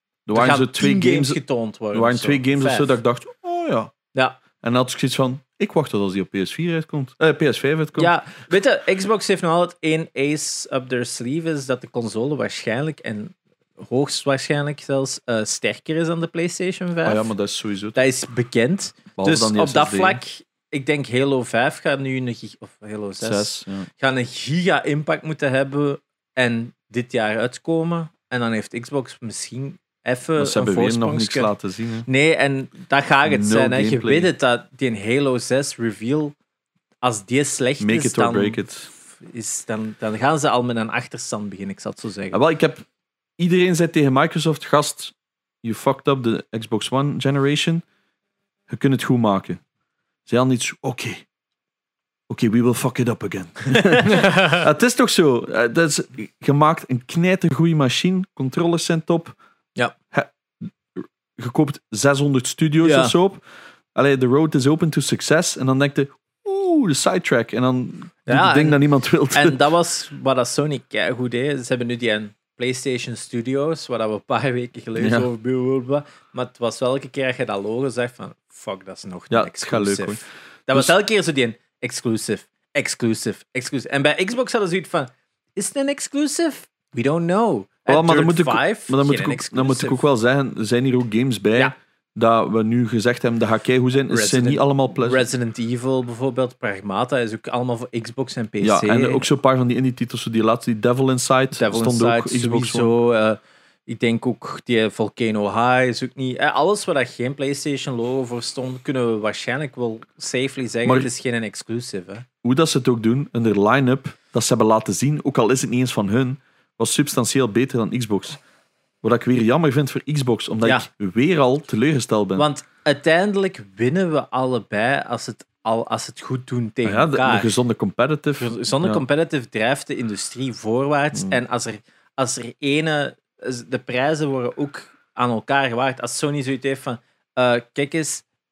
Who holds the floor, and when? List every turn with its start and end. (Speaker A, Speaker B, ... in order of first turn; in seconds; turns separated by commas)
Speaker A: 0.3-1.4, Speaker B: 0.3-3.0, Speaker A: 1.9-3.9, Speaker B: 4.1-4.4, Speaker A: 4.6-8.1, Speaker B: 8.0-17.3, Speaker A: 17.0-18.0, Speaker B: 17.9-31.5, Speaker A: 19.1-20.2, Speaker A: 23.2-23.9, Speaker A: 30.4-32.1, Speaker B: 32.0-36.4, Speaker A: 33.2-34.3, Speaker B: 37.0-38.6, Speaker A: 37.8-38.9, Speaker B: 39.1-42.4, Speaker A: 42.3-42.8, Speaker A: 43.4-47.8, Speaker A: 48.7-49.6, Speaker A: 50.3-51.2, Speaker A: 52.3-59.3, Speaker B: 53.7-54.3, Speaker A: 61.0-63.4, Speaker B: 62.8-63.1, Speaker A: 63.9-69.6, Speaker B: 68.2-90.0, Speaker A: 75.0-75.3, Speaker A: 79.3-80.9, Speaker A: 87.9-95.2, Speaker B: 94.1-99.2, Speaker A: 98.6-102.9, Speaker B: 101.5-112.2, Speaker A: 112.4-118.4, Speaker A: 119.0-122.4, Speaker B: 122.3-127.5, Speaker A: 126.8-129.0, Speaker B: 128.4-138.2, Speaker A: 131.1-131.4